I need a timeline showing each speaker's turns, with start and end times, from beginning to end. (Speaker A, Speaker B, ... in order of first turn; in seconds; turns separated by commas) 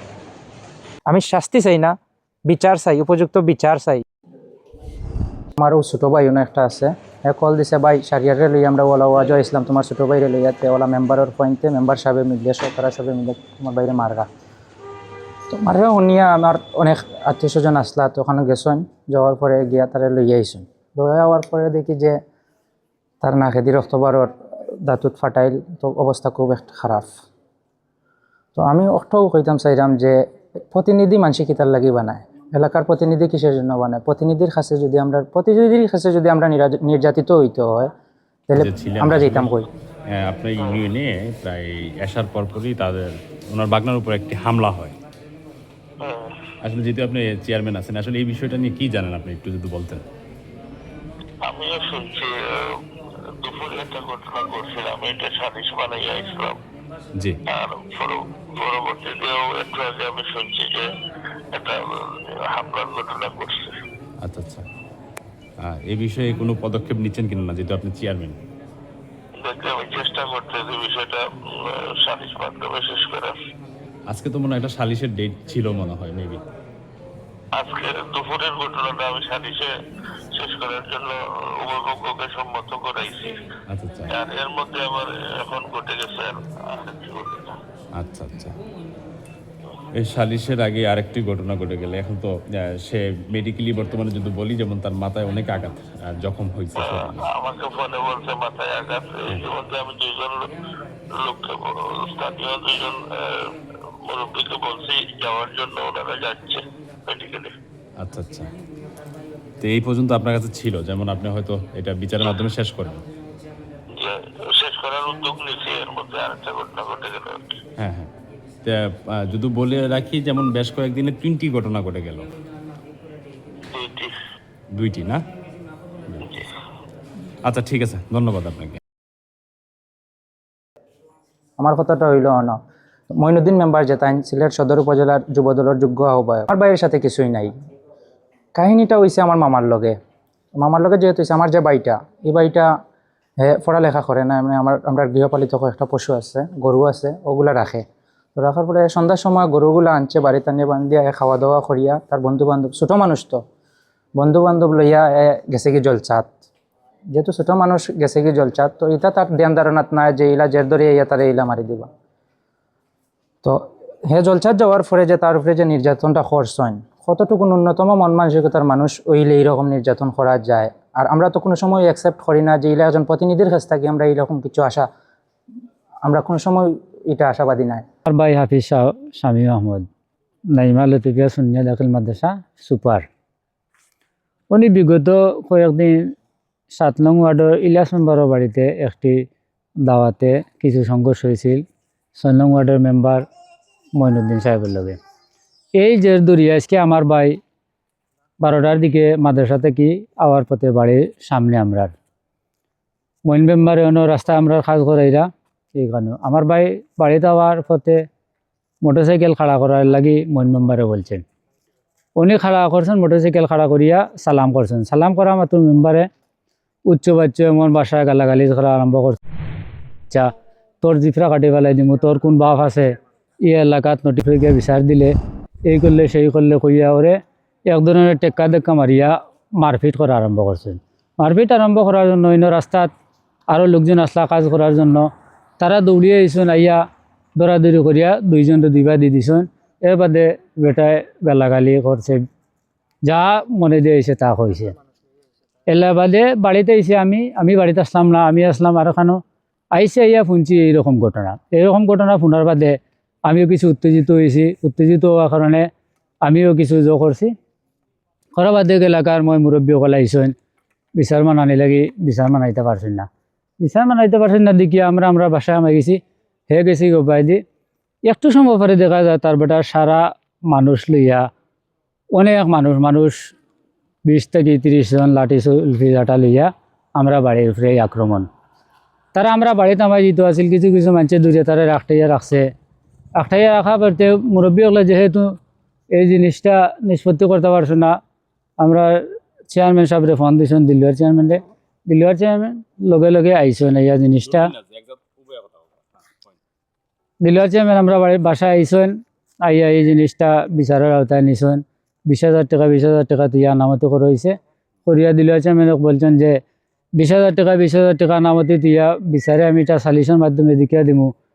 Speaker A: 1.1-1.9, Speaker A: 2.5-4.0, Speaker A: 5.6-14.3, Speaker A: 15.5-22.2, Speaker A: 23.2-27.1, Speaker A: 28.6-30.2, Speaker A: 30.7-37.9, Speaker A: 38.5-39.7, Speaker B: 38.5-39.6, Speaker B: 40.1-45.0, Speaker B: 46.6-50.0, Speaker C: 51.5-52.6, Speaker C: 53.4-56.6, Speaker C: 57.5-60.8, Speaker C: 61.5-63.7, Speaker B: 64.2-64.7, Speaker B: 65.6-68.4, Speaker C: 69.4-73.3, Speaker B: 74.1-76.4, Speaker C: 77.6-79.7, Speaker C: 80.3-83.3, Speaker B: 83.7-84.1, Speaker C: 84.2-87.5, Speaker B: 88.0-88.5, Speaker B: 90.0-92.3, Speaker B: 92.8-97.3, Speaker C: 97.3-100.5, Speaker C: 101.2-103.0, Speaker C: 104.0-107.5, Speaker B: 108.0-108.5, Speaker B: 109.6-113.0, Speaker C: 114.0-117.6, Speaker B: 117.8-118.1, Speaker B: 118.6-122.3, Speaker C: 123.7-124.1, Speaker B: 124.7-125.2, Speaker B: 127.4-128.8, Speaker A: 131.6-132.6, Speaker A: 133.1-137.5, Speaker A: 138.5-139.9, Speaker A: 140.6-142.7, Speaker A: 143.4-147.8, Speaker A: 148.3-153.4, Speaker A: 154.2-156.3, Speaker A: 157.1-161.9, Speaker A: 163.4-174.9, Speaker A: 176.0-177.8, Speaker D: 178.1-179.9, Speaker D: 180.5-183.1, Speaker D: 184.5-186.1, Speaker D: 186.7-189.3, Speaker D: 189.8-191.6, Speaker D: 192.2-193.2, Speaker D: 193.9-195.0, Speaker D: 195.8-197.4, Speaker D: 198.4-201.9, Speaker D: 203.3-208.1, Speaker D: 208.8-211.2, Speaker D: 212.2-216.1, Speaker D: 216.9-219.2, Speaker D: 220.8-222.9, Speaker D: 223.4-225.1, Speaker D: 225.7-232.9, Speaker D: 233.5-236.8, Speaker D: 237.3-242.2, Speaker D: 243.0-244.7, Speaker D: 245.7-249.2, Speaker D: 249.7-255.7, Speaker D: 256.2-257.3, Speaker D: 258.4-260.3, Speaker D: 261.0-263.1, Speaker D: 263.6-267.4, Speaker D: 268.1-271.2, Speaker D: 272.1-273.3, Speaker D: 274.1-278.3, Speaker D: 279.1-282.5, Speaker D: 283.2-285.4, Speaker D: 285.9-288.0, Speaker D: 288.6-294.5, Speaker D: 297.2-306.4, Speaker D: 306.9-311.1